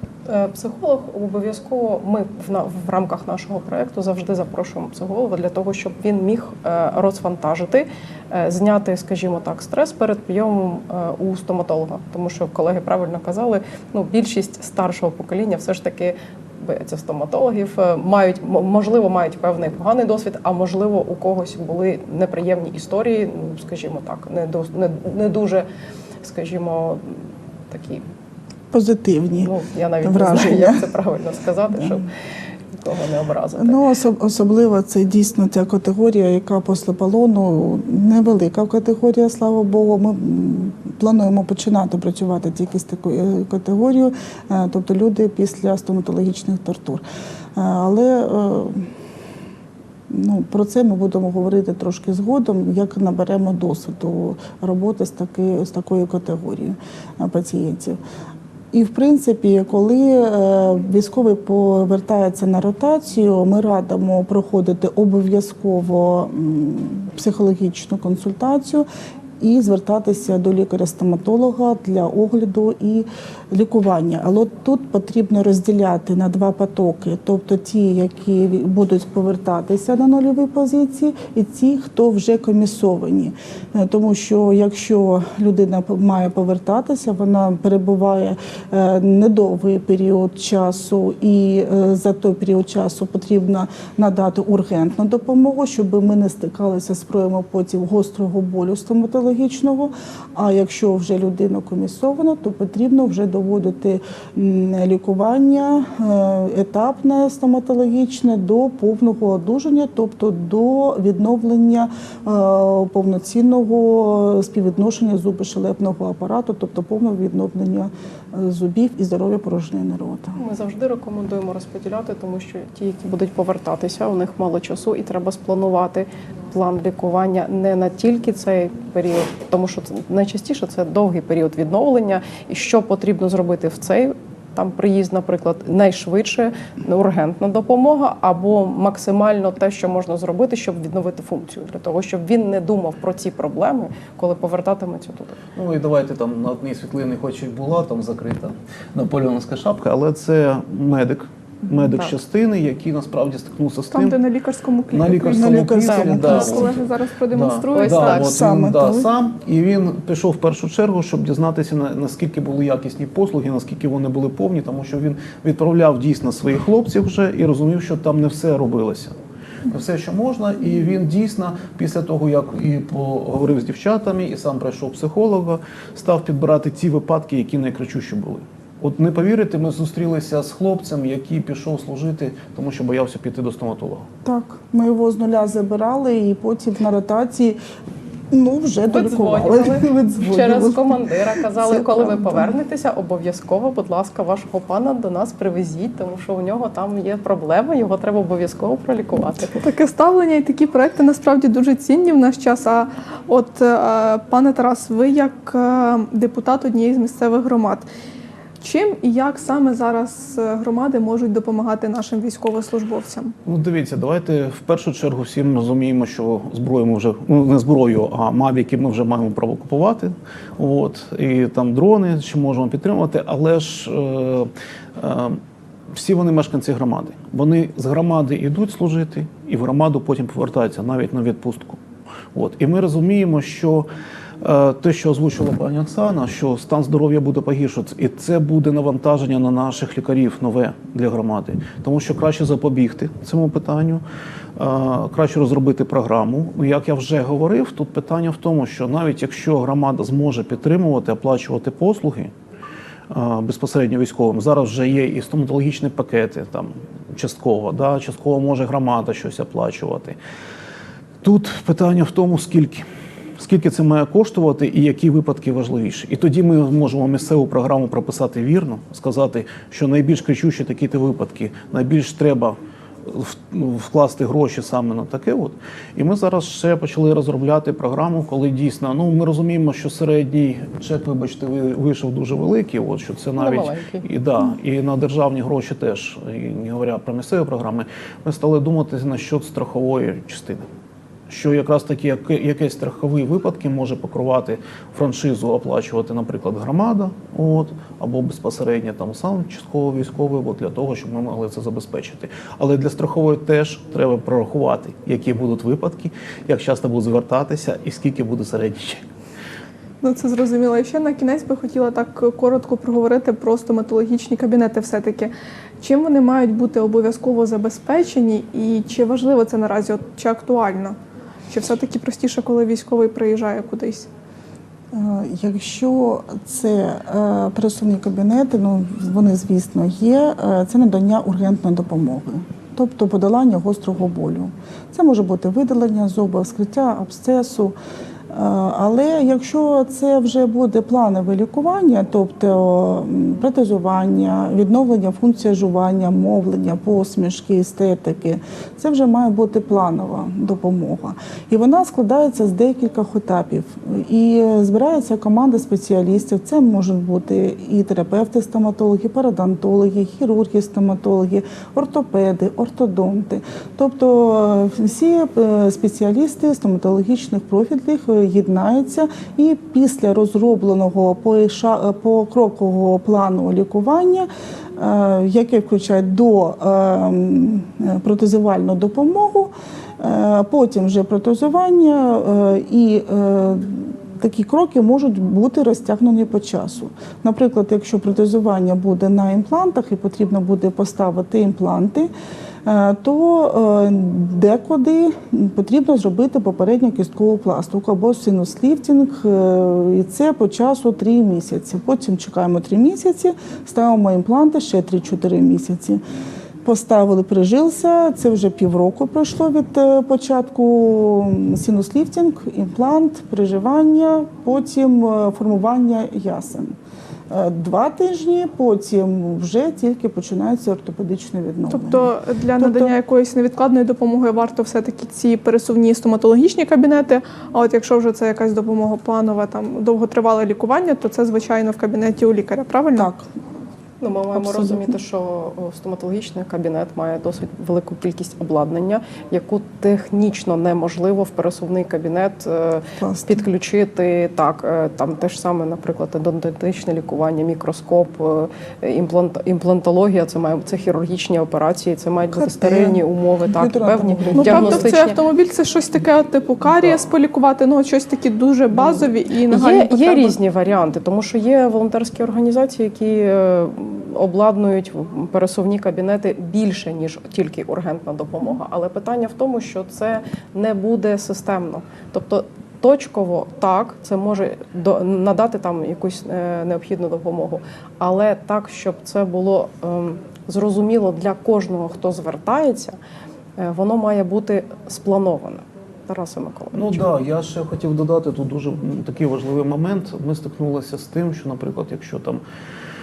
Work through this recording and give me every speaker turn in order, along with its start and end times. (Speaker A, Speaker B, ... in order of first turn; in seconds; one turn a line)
Speaker A: 0.2-25.6
Speaker A: 26.2-27.2
Speaker A: 27.7-28.0
Speaker B: 28.7-29.5
Speaker A: 29.4-32.1
Speaker B: 30.0-30.8
Speaker A: 32.8-33.8
Speaker B: 33.6-47.0
Speaker B: 47.5-48.9
Speaker B: 50.1-58.0
Speaker B: 58.7-68.8
Speaker B: 69.4-120.4
Speaker A: 120.3-145.4
Speaker C: 145.6-154.2
Speaker D: 153.9-158.3
Speaker C: 154.9-169.1
Speaker B: 155.3-156.7
Speaker A: 157.7-158.3
Speaker B: 158.2-159.1
Speaker C: 169.7-184.1
Speaker B: 184.2-187.6
Speaker B: 188.3-191.0
Speaker A: 188.9-199.6
Speaker B: 191.6-192.5
Speaker D: 199.6-207.8
Speaker D: 208.6-213.3
Speaker C: 213.4-225.4
Speaker C: 225.9-231.8
Speaker C: 232.3-233.9
Speaker C: 234.4-244.0
Speaker C: 244.6-252.3
Speaker C: 253.1-260.1
Speaker C: 261.2-262.9
Speaker C: 263.4-290.6
Speaker A: 283.4-284.0
Speaker C: 291.3-309.0
Speaker D: 310.0-320.9
Speaker D: 321.5-324.1
Speaker B: 324.9-337.7
Speaker B: 338.3-392.1
Speaker B: 392.6-406.0
Speaker B: 406.6-416.8
Speaker B: 417.3-422.9
Speaker D: 421.7-433.1
Speaker B: 432.9-433.3
Speaker A: 434.0-455.2
Speaker B: 434.3-434.9
Speaker B: 443.0-443.4
Speaker B: 452.3-454.9
Speaker D: 454.4-460.4
Speaker A: 458.7-483.0
Speaker A: 483.6-487.1
Speaker C: 486.7-492.4